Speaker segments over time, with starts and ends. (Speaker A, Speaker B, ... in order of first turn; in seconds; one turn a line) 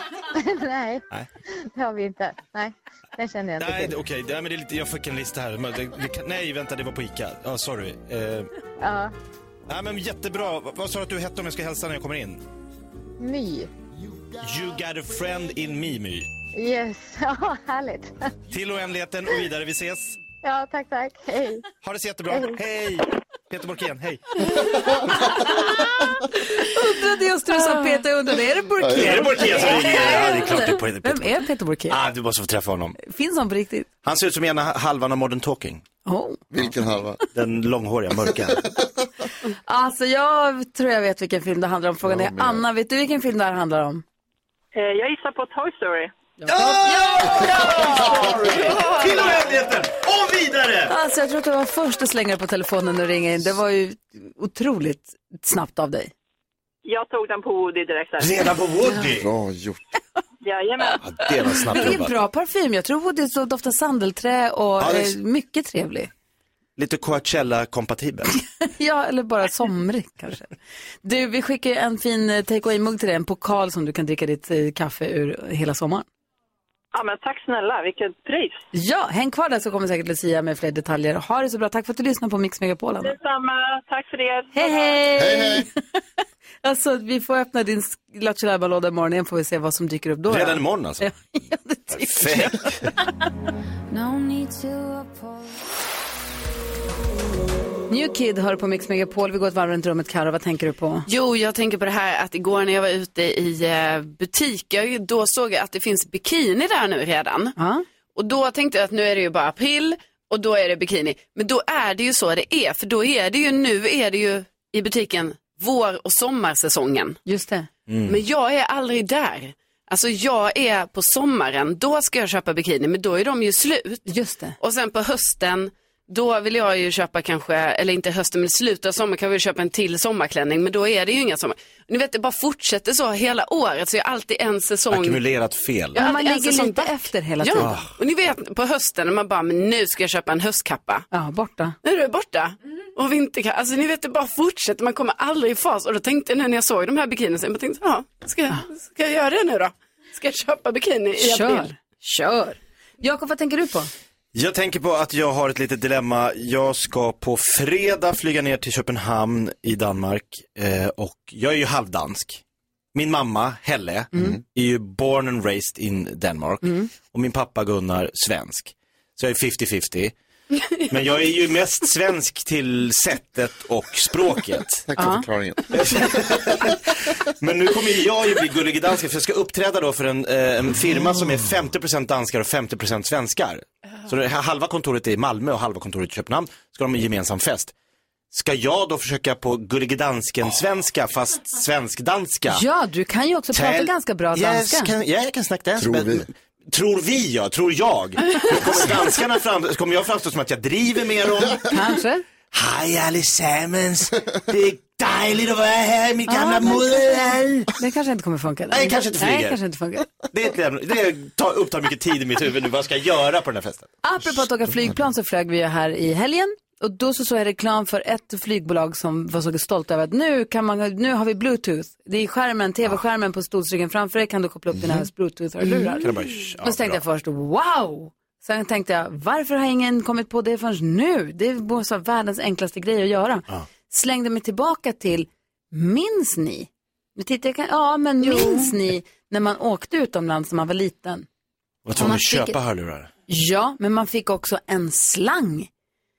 Speaker A: 0.3-4.0
Speaker B: 3.6-8.5
Speaker A: 8.8-9.1
Speaker B: 9.7-12.4
Speaker A: 13.2-13.7
Speaker B: 14.4-16.3
Speaker A: 16.5-18.3
Speaker B: 18.5-20.2
Speaker A: 20.4-21.7
Speaker B: 21.8-24.5
Speaker A: 22.3-22.6
Speaker C: 26.5-32.0
Speaker D: 27.6-28.0
Speaker E: 28.8-29.3
Speaker B: 28.9-33.0
Speaker C: 33.0-33.9
Speaker B: 34.0-35.8
Speaker C: 36.0-36.4
Speaker E: 36.5-37.2
Speaker B: 37.3-38.6
Speaker C: 39.6-44.0
Speaker E: 42.0-42.6
Speaker F: 44.7-46.1
Speaker C: 46.4-48.1
Speaker B: 46.5-50.9
Speaker D: 48.6-49.3
Speaker C: 50.9-56.1
Speaker F: 56.9-58.5
Speaker B: 58.2-59.3
Speaker E: 59.0-59.8
Speaker F: 60.4-61.0
Speaker B: 61.0-62.1
Speaker C: 61.6-66.1
Speaker B: 64.8-65.1
Speaker B: 66.8-68.3
Speaker C: 68.6-76.0
Speaker F: 76.9-78.6
Speaker C: 78.7-83.2
Speaker F: 83.0-85.0
Speaker C: 84.5-85.7
Speaker E: 85.1-85.7
Speaker C: 86.6-93.0
Speaker B: 90.3-91.1
Speaker B: 91.9-92.9
Speaker C: 97.9-101.0
Speaker D: 101.0-107.5
Speaker C: 107.6-107.8
Speaker D: 108.1-117.2
Speaker C: 117.2-117.7
Speaker B: 117.9-118.2
Speaker D: 118.0-124.1
Speaker C: 124.1-124.6
Speaker D: 124.6-135.2
Speaker B: 134.9-136.0
Speaker D: 135.9-141.1
Speaker C: 135.9-137.8
Speaker B: 137.6-137.9
Speaker C: 141.1-141.8
Speaker D: 141.8-151.7
Speaker C: 151.2-153.9
Speaker B: 154.3-162.4
Speaker B: 162.9-170.1
Speaker C: 166.6-166.9
Speaker B: 170.9-174.9
Speaker E: 174.9-176.6
Speaker C: 175.0-175.2
Speaker B: 175.7-187.7
Speaker B: 188.3-192.6
Speaker C: 192.5-194.9
Speaker B: 193.5-201.8
Speaker E: 195.8-196.3
Speaker C: 201.7-202.2
Speaker B: 202.5-207.7
Speaker C: 206.3-207.1
Speaker C: 207.8-210.1
Speaker B: 208.7-209.6
Speaker B: 210.3-213.9
Speaker C: 214.0-226.1
Speaker D: 225.7-226.1
Speaker B: 226.0-227.0
Speaker C: 226.6-241.2
Speaker D: 238.2-238.7
Speaker B: 241.8-243.1
Speaker C: 241.9-242.6
Speaker C: 243.3-245.7